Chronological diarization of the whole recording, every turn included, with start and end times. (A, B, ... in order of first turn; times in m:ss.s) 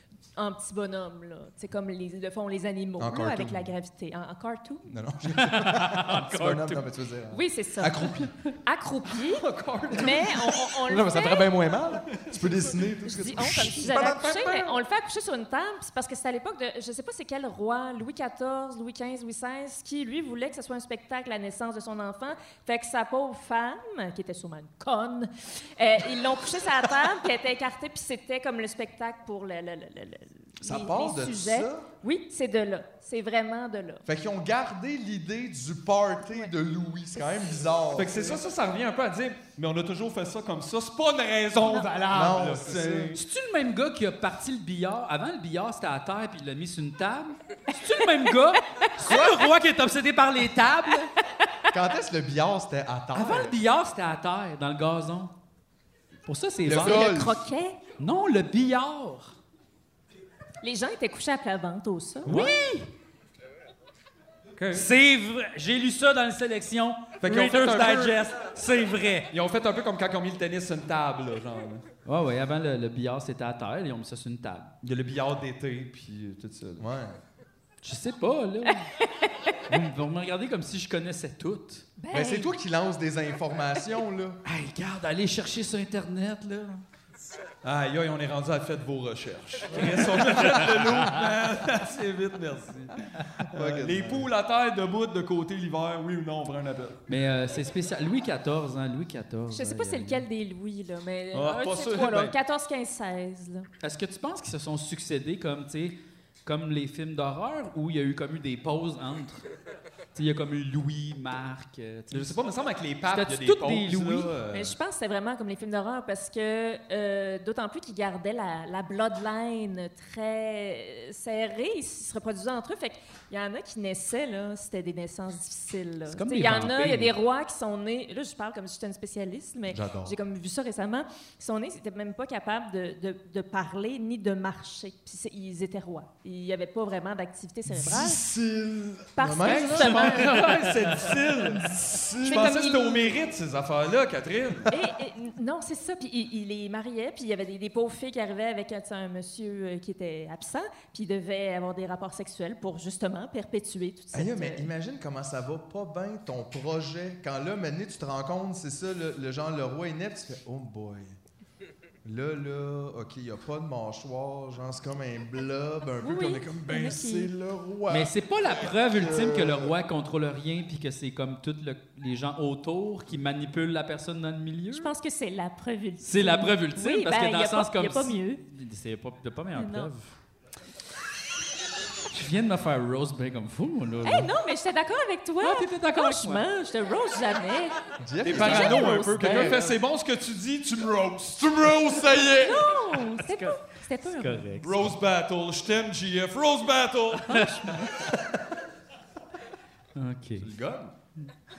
0:00.4-0:04.9 A
0:03.0-0:03.7 B
0:04.9-0:08.3 B
0:05.3-0:06.9 C
0:07.3-0:11.6 A
0:09.3-0:10.6 D
0:10.8-0:13.9 B
0:12.2-0:14.8 D
0:13.0-0:34.0 A
0:30.6-0:31.9 B
0:34.0-0:38.4 B
0:37.9-0:43.2 D
0:42.1-0:43.2 B
0:43.1-0:51.1 C
0:49.1-0:49.3 A
0:51.7-0:53.6 B
0:53.1-0:55.3 C
0:56.2-0:57.2 C
0:56.6-0:57.4 B
0:56.8-0:57.8 A
0:58.0-0:59.4 C
1:00.6-1:02.6 A
1:02.2-1:02.9 C
1:04.6-1:04.9 D
1:04.7-1:09.3 C
1:07.2-1:08.3 D
1:09.3-1:11.8 D
1:12.0-1:14.7 C
1:14.8-1:16.9 D
1:16.8-1:17.2 B
1:17.8-1:18.9 C
1:19.7-1:21.9 C
1:22.0-1:22.5 A
1:22.1-1:24.4 B
1:24.4-1:26.8 C
1:27.6-1:37.0 D
1:29.8-1:30.9 C
1:33.5-1:34.3 B
1:37.1-1:40.2 C
1:39.5-1:43.6 A
1:41.3-1:42.3 D
1:43.8-1:49.4 C
1:50.1-1:52.4 C
1:52.1-1:54.8 D
1:53.0-1:54.3 C
1:54.5-2:18.2 A
2:06.1-2:07.2 C
2:09.7-2:10.2 B
2:18.3-2:20.0 B
2:19.2-2:20.4 A
2:19.4-2:20.7 C
2:19.6-2:24.7 D
2:22.2-2:23.2 A
2:24.7-2:34.7 A
2:34.1-2:41.2 B
2:42.0-2:48.1 B
2:46.0-2:47.3 A
2:47.9-2:54.9 C
2:48.7-2:49.7 B
2:54.7-2:58.4 A
2:56.0-3:00.1 C
2:59.5-2:59.9 A
3:02.1-3:04.3 C
3:04.0-3:07.8 A
3:05.4-3:06.4 C
3:08.0-3:09.7 B
3:08.2-3:12.2 D
3:08.3-3:09.5 A
3:11.4-3:12.7 B
3:12.4-3:14.6 A
3:13.2-3:14.9 C
3:14.6-3:17.6 D
3:17.3-3:17.8 C
3:20.0-3:20.5 C
3:20.4-3:20.9 B